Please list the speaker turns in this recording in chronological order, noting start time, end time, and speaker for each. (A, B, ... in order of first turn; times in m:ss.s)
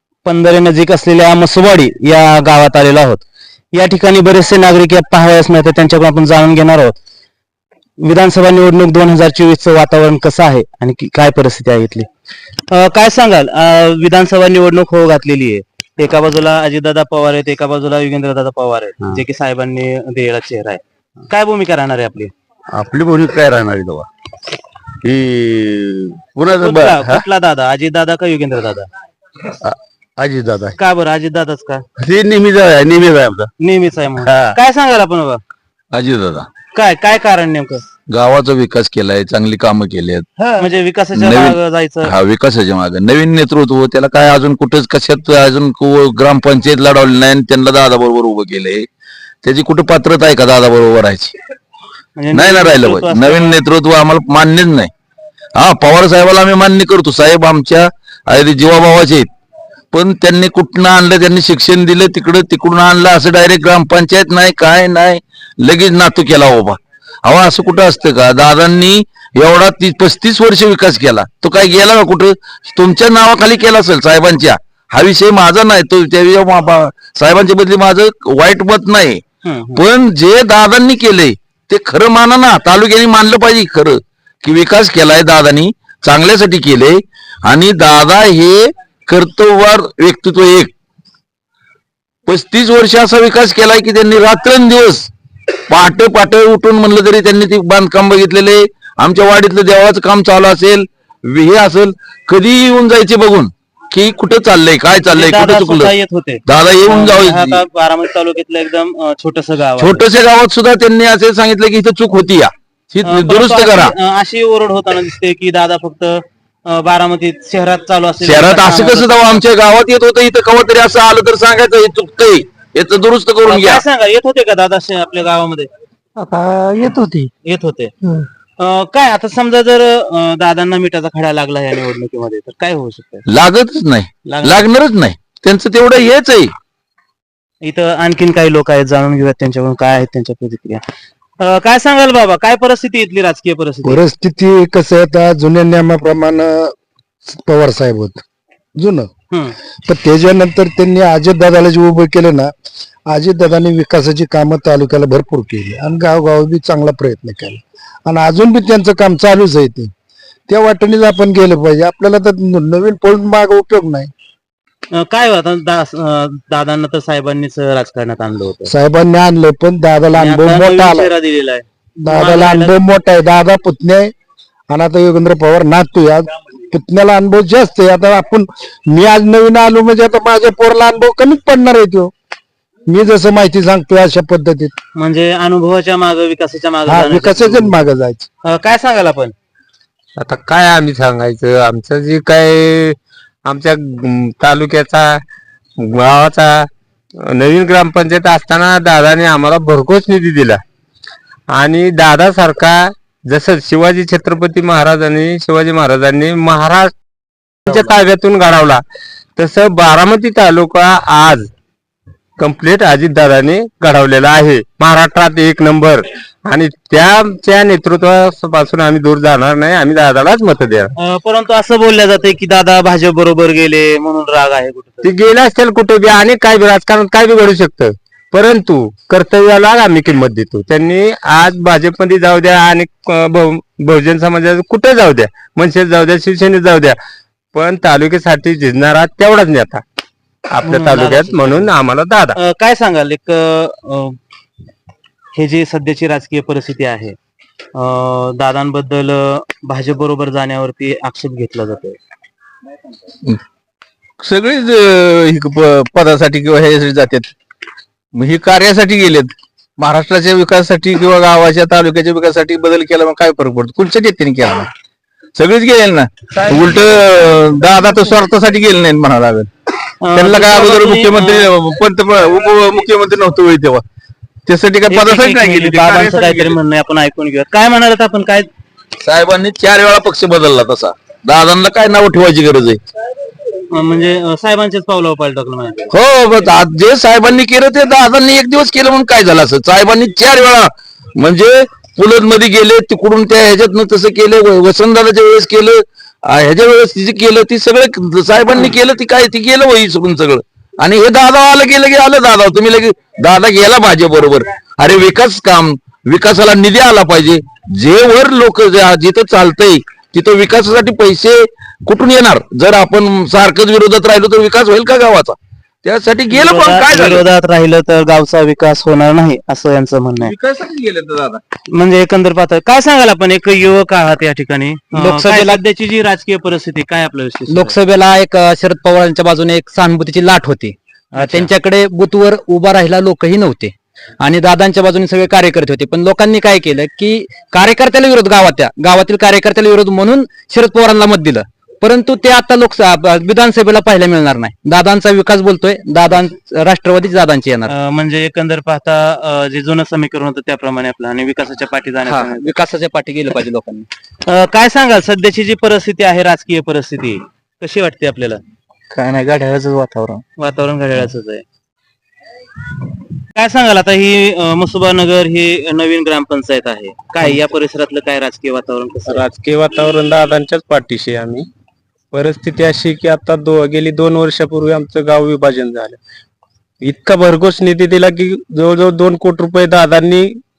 0:00.2-0:07.0 A
0:08.0-0:12.1 A
0:12.7-0:22.3 A
0:22.7-0:24.1 B
0:25.0-0:27.2 B
0:26.5-0:28.9 A
0:29.6-0:30.7 B
0:30.8-0:31.8 A
0:32.0-0:33.5 B
0:33.6-0:35.4 A
0:34.3-0:34.6 B
0:35.9-0:36.5 B
0:36.7-0:37.8 A
0:38.1-0:40.3 B
0:40.6-0:42.1 A
0:41.1-0:48.9 B
0:49.4-0:51.3 B
0:52.2-0:53.6 A
0:52.3-0:54.9 B
0:55.6-0:59.3 B
0:59.9-1:19.2 B
1:19.4-1:19.8 A
1:19.8-1:30.7 B
1:32.3-1:35.1 B
1:35.7-1:45.9 B
1:45.1-1:50.0 A
1:46.5-1:47.6 B
1:49.8-1:53.9 B
1:53.0-1:59.4 A
1:58.2-2:03.8 B
2:03.5-2:05.7 A
2:06.2-2:07.3 C
2:07.4-2:07.9 A
2:08.6-2:13.2 A
2:13.3-2:16.5 B
2:14.3-2:14.7 A
2:17.6-2:20.8 A
2:21.4-2:24.0 A
2:23.8-2:26.7 C
2:27.3-2:28.2 C
2:28.8-2:29.1 C
2:29.9-2:32.5 C
2:33.1-2:39.9 C
2:40.5-2:44.1 C
2:44.9-2:48.7 A
2:48.7-2:51.1 C
2:50.1-2:52.8 A
2:52.0-2:54.1 C
2:54.7-3:02.1 C
3:02.9-3:04.7 C
3:05.0-3:07.8 A
3:06.9-3:08.3 C
3:08.4-3:09.4 A
3:10.2-3:15.2 D
3:15.8-3:16.7 D
3:17.2-3:20.6 D
3:21.5-3:26.9 D
3:27.7-3:28.8 D
3:29.4-3:31.5 D
3:32.4-3:40.9 D
3:41.0-3:45.1 A
3:45.0-3:57.0 D
3:57.5-3:59.8 D
4:00.5-4:02.4 D
4:00.6-4:01.7 A
4:02.4-4:04.2 A
4:05.4-4:07.2 A
4:07.8-4:12.0 A
4:25.4-4:29.5 B
4:30.0-4:31.5 A
4:30.2-4:33.1 B
4:34.9-4:38.5 A
4:39.0-4:42.8 B
4:43.7-4:45.9 A
4:45.9-5:17.2 B
5:16.3-5:20.3 A
5:20.2-5:21.4 B
5:21.7-5:27.8 A
5:24.9-5:25.6 E
5:27.5-5:47.7 E
5:31.2-5:31.5 A
5:47.7-5:52.6 A
5:52.0-5:53.9 E
5:54.2-5:58.4 A
5:59.0-6:00.0 E
6:00.4-6:01.4 A
6:03.3-6:09.2 A
6:09.2-6:11.4 F
6:12.1-6:16.0 F
6:16.8-6:20.3 F